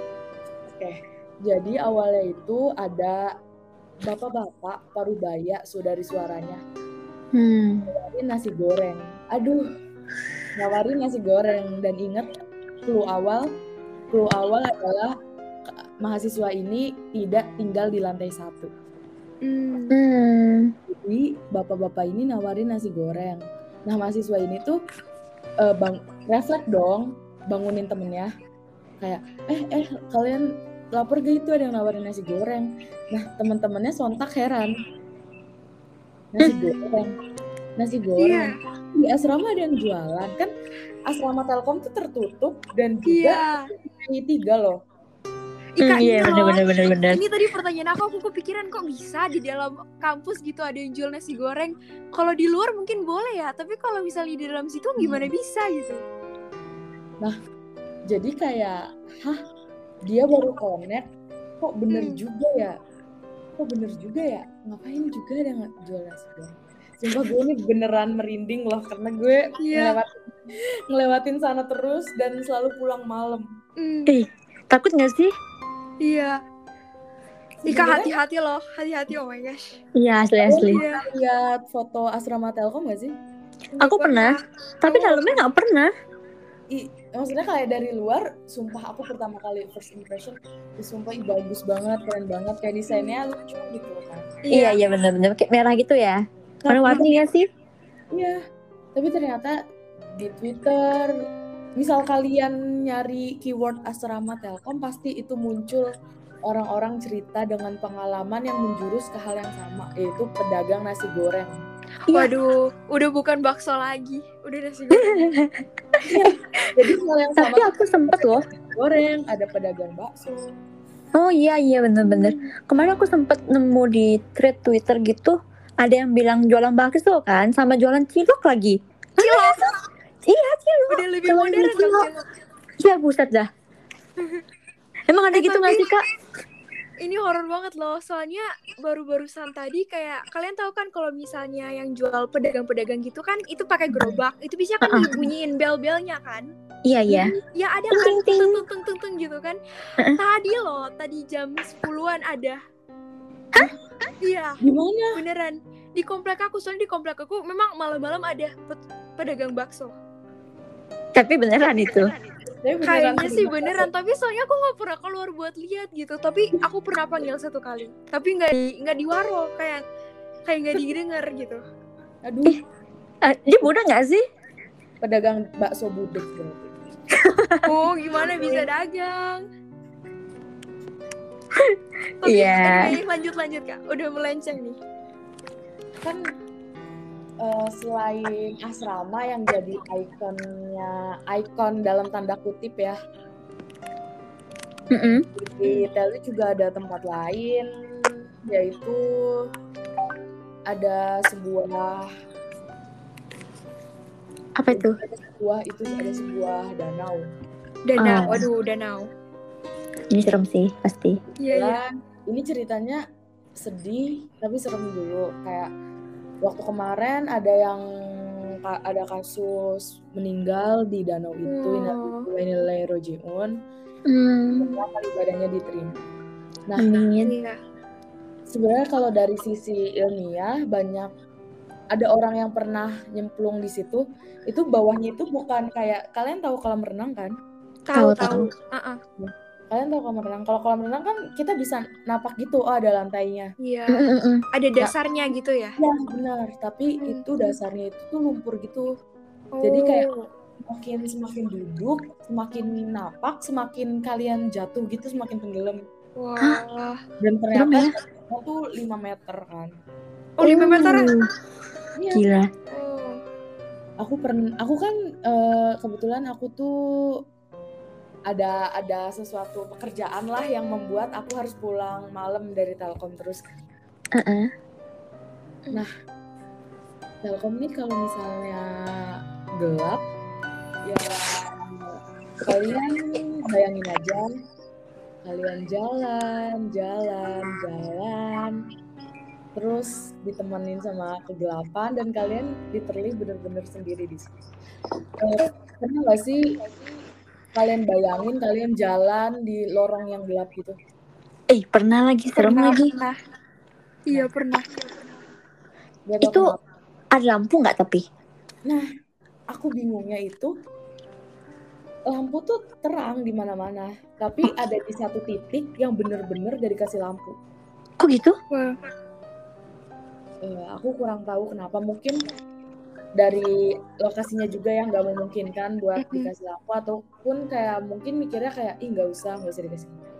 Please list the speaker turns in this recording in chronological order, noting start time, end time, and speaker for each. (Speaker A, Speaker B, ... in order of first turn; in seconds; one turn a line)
Speaker A: 0.7-3.3
Speaker A: 4.0-6.6
Speaker B: 7.3-7.8
Speaker A: 7.9-9.6
Speaker A: 10.5-12.3
Speaker A: 12.8-13.4
Speaker A: 14.1-15.1
Speaker A: 15.7-18.7
Speaker C: 19.4-19.9
Speaker B: 19.9-20.7
Speaker A: 20.9-24.8
Speaker A: 25.6-28.3
Speaker A: 29.0-34.7
Speaker A: 36.3-37.1
Speaker A: 37.8-40.5
Speaker C: 38.2-38.6
Speaker A: 41.1-44.8
Speaker C: 43.1-43.7
Speaker C: 45.8-56.0
Speaker B: 45.8-47.2
Speaker A: 58.1-59.4
Speaker A: 60.1-61.0
Speaker A: 61.6-62.8
Speaker C: 61.9-62.2
Speaker A: 63.6-73.4
Speaker C: 69.6-70.0
Speaker C: 73.8-74.1
Speaker B: 74.1-75.3
Speaker C: 76.0-76.4
Speaker A: 77.6-78.1
Speaker C: 77.7-79.8
Speaker B: 80.0-80.8
Speaker A: 80.4-83.1
Speaker C: 80.7-81.0
Speaker C: 83.8-85.5
Speaker B: 83.8-85.9
Speaker A: 86.7-94.2
Speaker C: 92.9-93.2
Speaker C: 94.5-94.8
Speaker B: 94.5-97.4
Speaker A: 96.6-97.1
Speaker A: 99.0-99.6
Speaker A: 100.2-101.1
Speaker A: 101.8-105.9
Speaker A: 106.5-111.6
Speaker C: 112.1-115.3
Speaker B: 114.9-116.0
Speaker A: 116.0-120.5
Speaker B: 117.4-118.4
Speaker B: 121.1-129.7
Speaker C: 122.0-122.5
Speaker C: 129.2-129.7
Speaker B: 130.2-132.1
Speaker C: 130.9-132.2
Speaker B: 132.8-133.5
Speaker B: 135.1-136.0
Speaker C: 135.3-136.0
Speaker C: 137.0-146.5
Speaker B: 144.8-145.2
Speaker B: 146.8-147.3
Speaker C: 147.1-149.6
Speaker B: 147.9-148.6
Speaker C: 150.2-152.6
Speaker C: 154.2-154.6
Speaker A: 154.6-155.2
Speaker C: 155.2-159.9
Speaker B: 161.1-162.1
Speaker A: 162.4-163.9
Speaker C: 162.8-169.8
Speaker C: 170.5-171.6
Speaker A: 172.2-172.6
Speaker B: 173.2-174.2
Speaker A: 175.0-176.7
Speaker B: 177.1-177.7
Speaker C: 177.6-179.4
Speaker A: 178.2-178.7
Speaker B: 181.6-183.0
Speaker C: 182.2-184.8
Speaker A: 187.4-193.0
Speaker B: 194.9-195.2
Speaker A: 195.3-197.7
Speaker A: 198.5-199.4
Speaker A: 200.7-202.1
Speaker B: 204.6-205.0
Speaker A: 204.7-207.2
Speaker C: 207.9-209.1
Speaker B: 208.0-208.5
Speaker B: 210.1-211.2
Speaker C: 211.4-211.8
Speaker A: 211.5-213.0
Speaker A: 213.6-215.7
Speaker A: 216.4-217.8
Speaker A: 218.6-223.5
Speaker C: 221.5-222.2
Speaker B: 224.1-224.7
Speaker A: 224.7-226.0
Speaker A: 226.7-227.0
Speaker B: 226.8-227.3
Speaker C: 227.2-227.6
Speaker A: 228.5-231.1
Speaker A: 231.9-237.3
Speaker C: 237.9-239.0
Speaker B: 237.9-238.5
Speaker A: 239.2-243.5
Speaker C: 243.6-245.8
Speaker B: 243.9-244.4
Speaker A: 245.8-248.9
Speaker C: 249.5-250.1
Speaker A: 249.6-250.1
Speaker A: 250.7-255.8
Speaker C: 256.2-257.0
Speaker A: 257.2-259.7
Speaker B: 257.5-257.9
Speaker C: 260.4-261.2
Speaker B: 260.4-261.3
Speaker A: 262.0-262.2
Speaker B: 262.1-262.5
Speaker C: 262.7-263.2
Speaker A: 264.0-266.7
Speaker A: 268.3-273.4
Speaker B: 274.1-274.5
Speaker A: 277.2-278.7
Speaker A: 279.6-280.0
Speaker A: 280.9-284.3
Speaker A: 285.2-288.6
Speaker A: 289.6-294.4
Speaker A: 295.2-296.5
Speaker A: 297.5-300.8
Speaker B: 301.5-302.9
Speaker C: 302.4-303.1
Speaker C: 304.1-304.7
Speaker A: 306.1-306.6
Speaker B: 306.2-306.4
Speaker B: 307.1-308.0
Speaker A: 309.5-310.5
Speaker A: 312.1-317.3
Speaker B: 318.0-318.3
Speaker A: 320.4-322.3
Speaker A: 323.2-330.0
Speaker C: 326.0-326.3